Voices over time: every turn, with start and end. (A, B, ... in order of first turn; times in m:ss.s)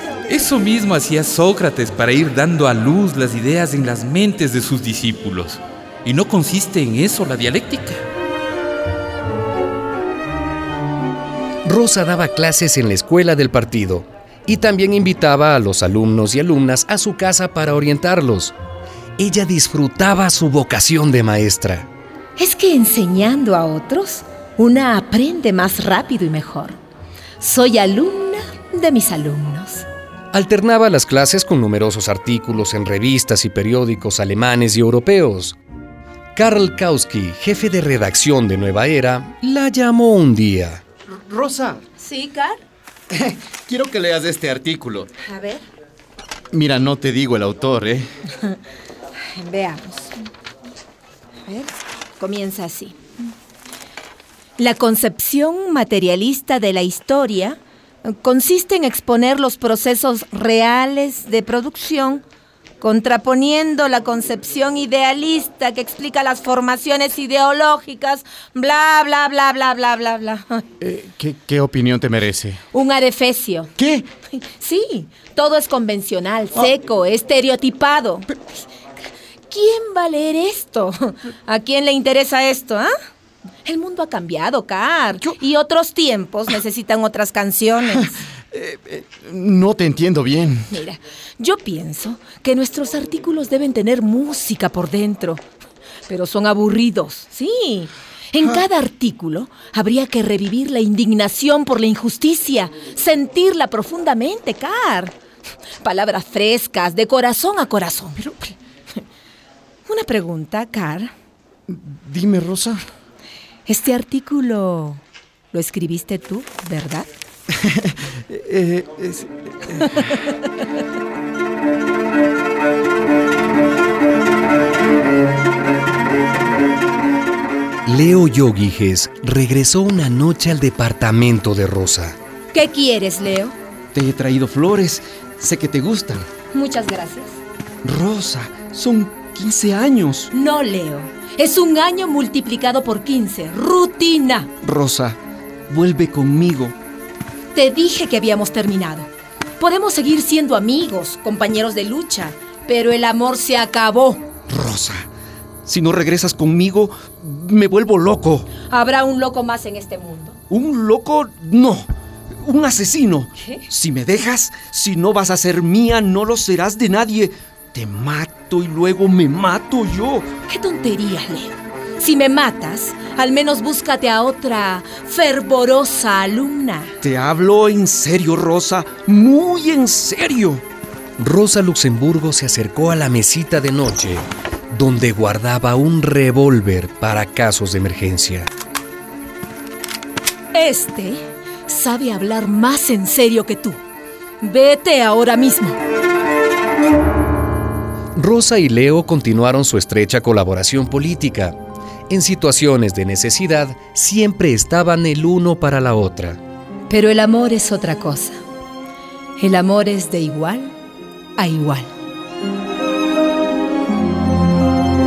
0:00.3-0:08.0 A
0:11.6-0:18.5 B
0:19.2-0:21.9 B
0:22.4-0:26.8 C
0:27.4-0:29.9 C
0:30.3-0:35.6 B
0:36.4-0:40.8 B
0:41.5-0:41.8 D
0:42.0-0:42.6 C
0:43.5-0:45.1 D
0:45.2-0:45.6 C
0:46.5-0:48.0 D
0:46.6-0:47.8 E
0:49.4-0:50.2 C
0:51.5-0:53.0 C
0:54.6-1:02.2 C
1:02.8-1:10.6 C
1:10.8-1:12.6 E
1:11.2-1:12.5 D
1:12.7-1:13.7 C
1:13.8-1:14.0 E
1:14.4-1:18.6 C
1:19.5-1:22.9 C
1:23.6-1:28.2 C
1:28.5-1:30.7 E
1:30.7-1:35.4 C
1:36.1-1:45.2 C
1:45.8-1:48.5 C
1:49.9-1:51.1 C
1:51.7-1:52.8 E
1:53.7-1:57.2 C
1:57.5-2:00.1 E
2:07.8-2:12.2 B
2:12.5-2:13.6 C
2:13.9-2:16.3 E
2:16.5-2:17.4 C
2:17.8-2:20.3 E
2:20.3-2:24.5 C
2:24.6-2:26.8 E
2:27.5-2:34.2 C
2:34.5-2:35.1 E
2:35.6-2:38.5 E
2:38.6-2:40.4 C
2:40.5-2:41.9 E
2:42.4-2:50.3 E
2:50.5-2:57.0 C
2:57.0-3:00.6 E
3:01.2-3:08.5 B
3:10.5-3:13.8 C
3:14.4-3:15.8 C
3:18.2-3:21.6 B
3:22.1-3:26.4 B
3:26.9-3:28.4 C
3:29.4-3:30.7 C
3:31.4-3:31.9 C